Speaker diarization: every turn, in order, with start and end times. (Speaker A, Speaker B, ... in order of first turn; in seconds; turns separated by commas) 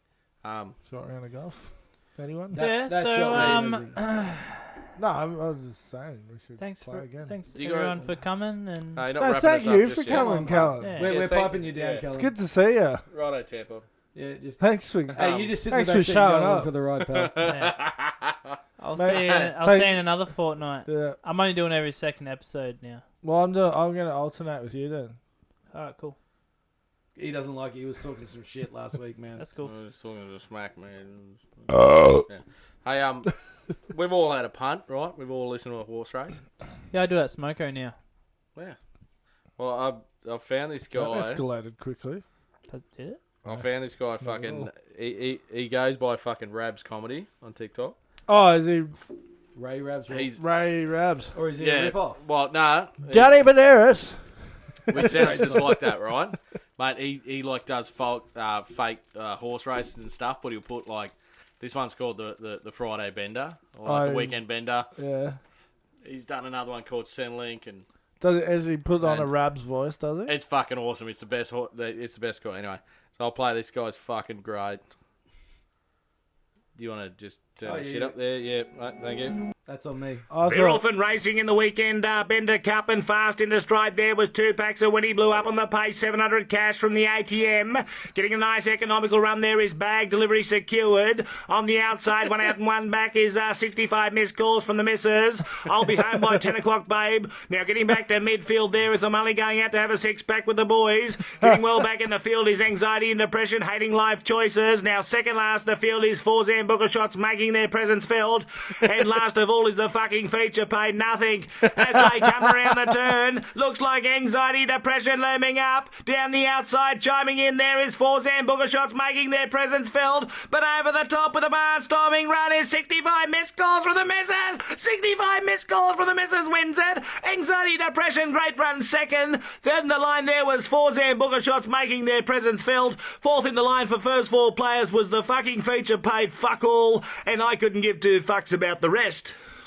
Speaker A: 0.4-0.8, Speaker B: 0.8-2.6, Speaker C: 2.5-4.0, Speaker D: 2.5-4.8, Speaker A: 3.3-3.7, Speaker B: 5.0-7.3, Speaker D: 6.6-9.1, Speaker A: 7.5-8.1, Speaker A: 9.0-12.1, Speaker B: 9.1-11.0, Speaker C: 10.1-12.3, Speaker D: 10.7-11.2, Speaker B: 12.1-13.1, Speaker A: 13.1-13.8, Speaker C: 14.1-17.5, Speaker B: 14.6-16.7, Speaker A: 15.1-15.6, Speaker A: 17.1-19.5, Speaker D: 17.4-17.8, Speaker D: 18.8-23.0, Speaker B: 18.9-20.2, Speaker B: 20.9-21.2, Speaker B: 23.2-25.2, Speaker D: 25.7-26.1, Speaker C: 27.1-29.4, Speaker D: 29.4-29.7, Speaker A: 29.6-36.4, Speaker D: 36.9-38.0, Speaker A: 39.6-41.4, Speaker B: 40.9-42.2, Speaker D: 42.7-43.2, Speaker A: 43.4-48.0, Speaker B: 44.2-44.7, Speaker B: 48.3-49.0, Speaker C: 49.5-50.4, Speaker A: 50.1-50.4, Speaker B: 50.4-51.4, Speaker C: 51.3-52.2, Speaker A: 51.6-53.3, Speaker B: 53.1-54.3, Speaker B: 54.8-55.9, Speaker A: 54.9-64.9, Speaker C: 55.0-55.8, Speaker B: 63.8-64.4, Speaker B: 64.9-65.4, Speaker A: 66.0-67.8, Speaker B: 68.2-70.3, Speaker A: 69.0-69.3, Speaker A: 70.3-74.8, Speaker A: 76.8-79.4, Speaker C: 77.6-78.1, Speaker C: 79.7-80.3, Speaker B: 80.3-80.8, Speaker E: 80.4-139.3